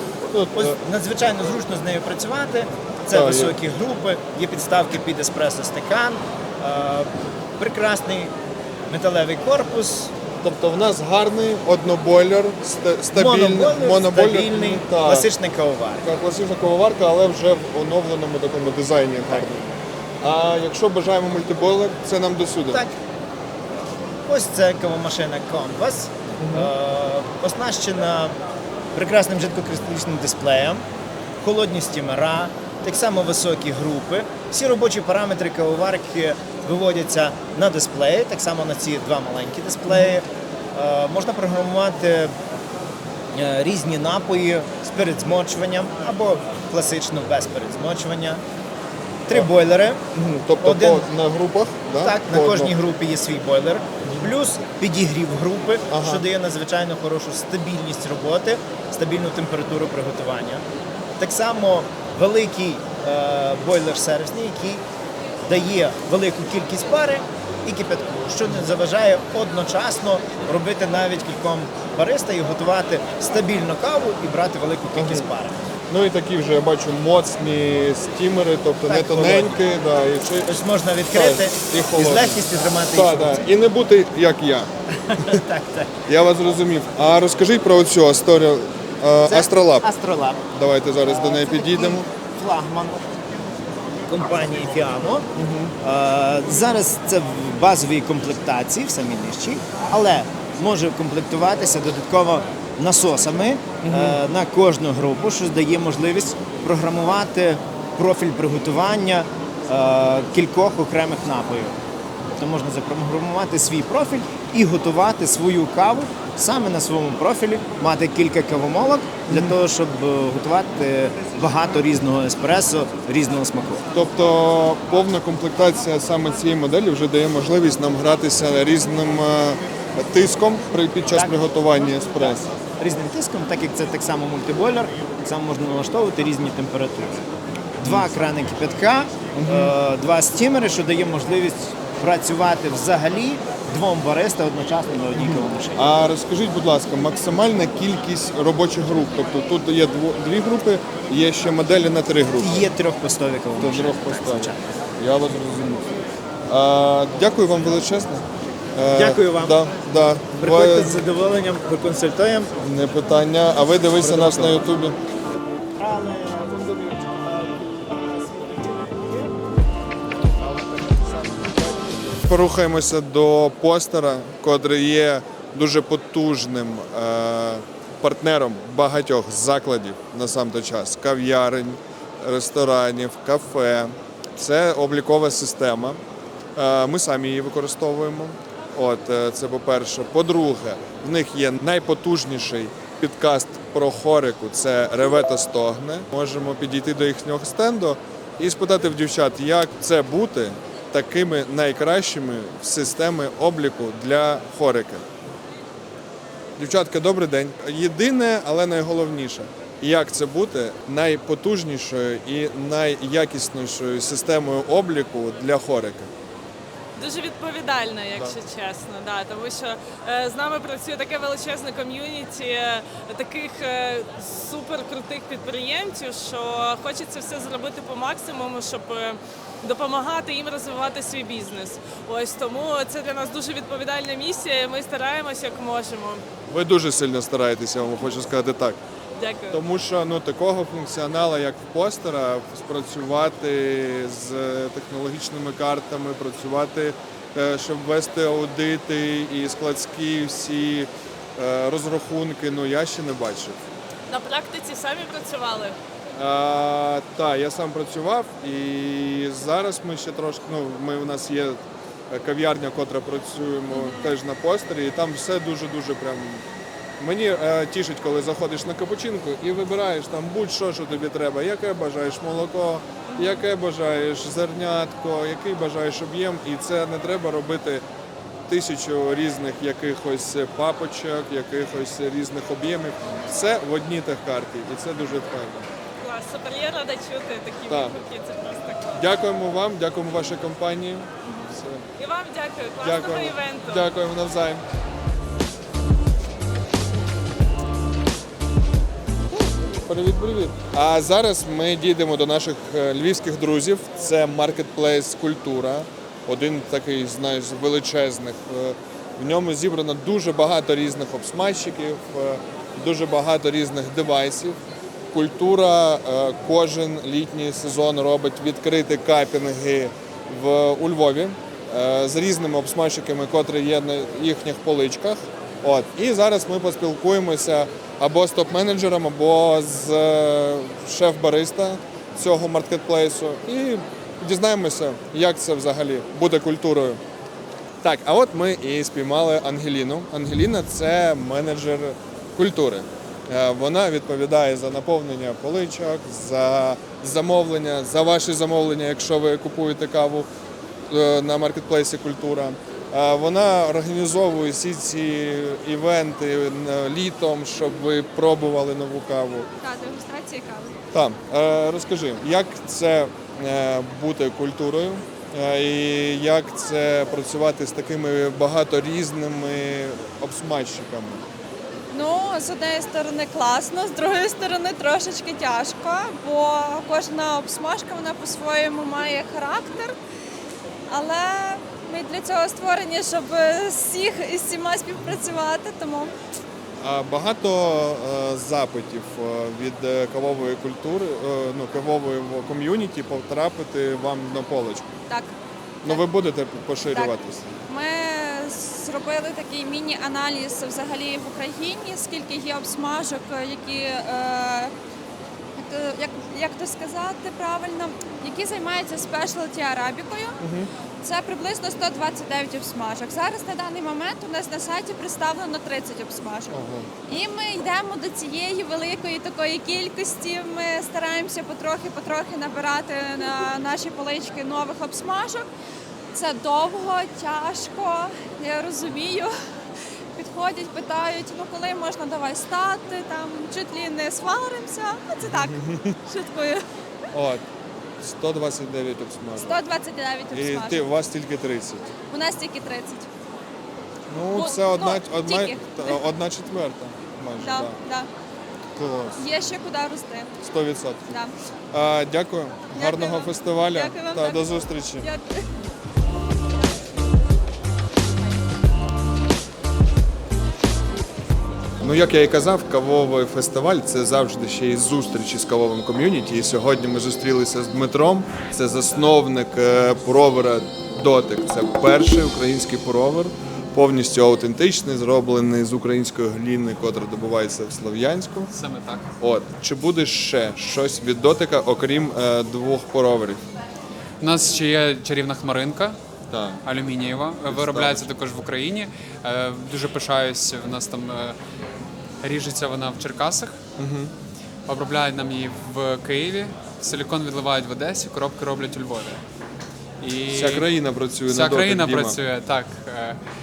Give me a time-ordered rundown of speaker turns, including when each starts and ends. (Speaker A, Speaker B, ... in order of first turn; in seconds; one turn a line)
Speaker A: 0.3-0.8
Speaker B: 0.5-8.3
Speaker A: 3.1-3.5
Speaker B: 8.9-10.1
Speaker A: 10.4-15.3
Speaker B: 13.1-16.1
Speaker A: 16.0-19.6
Speaker A: 20.2-22.8
Speaker B: 22.7-22.9
Speaker B: 24.2-28.3
Speaker A: 26.4-26.7
Speaker B: 28.9-30.8
Speaker B: 31.4-42.3
Speaker A: 39.9-40.2
Speaker B: 43.3-48.4
Speaker B: 49.3-50.0
Speaker A: 50.1-52.7
Speaker B: 50.6-51.1
Speaker B: 52.0-60.6
Speaker A: 54.0-54.3
Speaker A: 55.9-56.2
Speaker B: 61.2-64.8
Speaker B: 65.5-75.7
Speaker A: 74.9-75.3
Speaker A: 75.9-80.5
Speaker B: 78.8-79.5
Speaker B: 80.4-83.4
Speaker A: 81.1-84.7
Speaker B: 85.0-86.0
Speaker A: 86.0-89.9
Speaker B: 89.2-90.4
Speaker A: 90.5-92.0
Speaker B: 91.0-93.0
Speaker B: 94.1-95.3
Speaker A: 95.3-95.7
Speaker B: 95.8-111.8
Speaker A: 103.8-104.2
Speaker B: 112.4-123.8
Speaker A: 119.3-119.6
Speaker A: 123.9-132.5
Speaker B: 131.1-131.4
Speaker B: 132.0-137.2
Speaker B: 137.8-145.9
Speaker A: 139.3-139.7
Speaker A: 145.2-152.7
Speaker B: 152.4-154.7
Speaker A: 153.6-155.9
Speaker A: 156.5-161.0
Speaker B: 158.9-159.7
Speaker B: 160.4-162.5
Speaker A: 162.6-165.0
Speaker B: 164.0-164.7
Speaker B: 165.8-169.5
Speaker B: 170.3-172.2
Speaker A: 172.2-186.0
Speaker A: 186.5-205.0
Speaker A: 206.6-216.1
Speaker C: 216.9-236.2
Speaker A: 236.5-238.8
Speaker C: 239.2-239.6
Speaker A: 239.5-253.6
Speaker C: 254.1-255.8
Speaker A: 256.1-266.4
Speaker C: 263.7-264.2
Speaker A: 267.0-277.8
Speaker C: 273.1-273.4
Speaker A: 278.5-285.7
Speaker C: 286.0-289.2
Speaker A: 287.7-287.9
Speaker A: 288.9-291.8
Speaker C: 291.2-293.9
Speaker A: 292.8-294.6
Speaker A: 299.3-314.6
Speaker A: 315.1-337.0
Speaker A: 337.8-350.3
Speaker A: 350.9-359.5
Speaker D: 359.6-360.8
Speaker A: 360.9-371.2
Speaker D: 371.9-379.9
Speaker D: 380.9-386.1
Speaker A: 386.8-394.9
Speaker D: 395.1-396.0
Speaker A: 395.8-397.5
Speaker D: 397.7-404.7
Speaker D: 405.6-410.3
Speaker A: 410.4-410.7
Speaker D: 411.0-425.5
Speaker A: 416.5-416.9
Speaker D: 426.1-429.3
Speaker D: 430.1-436.6
Speaker A: 435.3-435.9
Speaker A: 437.1-437.4
Speaker A: 438.0-439.6
Speaker D: 439.4-440.9
Speaker A: 440.3-441.9
Speaker D: 442.1-443.1
Speaker A: 444.1-447.8
Speaker D: 444.3-446.0
Speaker D: 447.4-448.1
Speaker A: 448.7-449.2
Speaker D: 449.1-450.3
Speaker A: 450.4-451.1
Speaker A: 451.7-455.1
Speaker D: 452.7-455.5
Speaker A: 461.8-478.5
Speaker E: 478.5-479.1
Speaker A: 479.2-483.4
Speaker E: 484.2-486.0
Speaker A: 486.3-486.6
Speaker E: 486.6-491.4
Speaker A: 487.5-488.1
Speaker E: 492.2-493.6
Speaker A: 493.8-494.1
Speaker E: 494.7-499.2
Speaker E: 500.0-500.7
Speaker A: 500.3-502.2
Speaker E: 501.3-503.2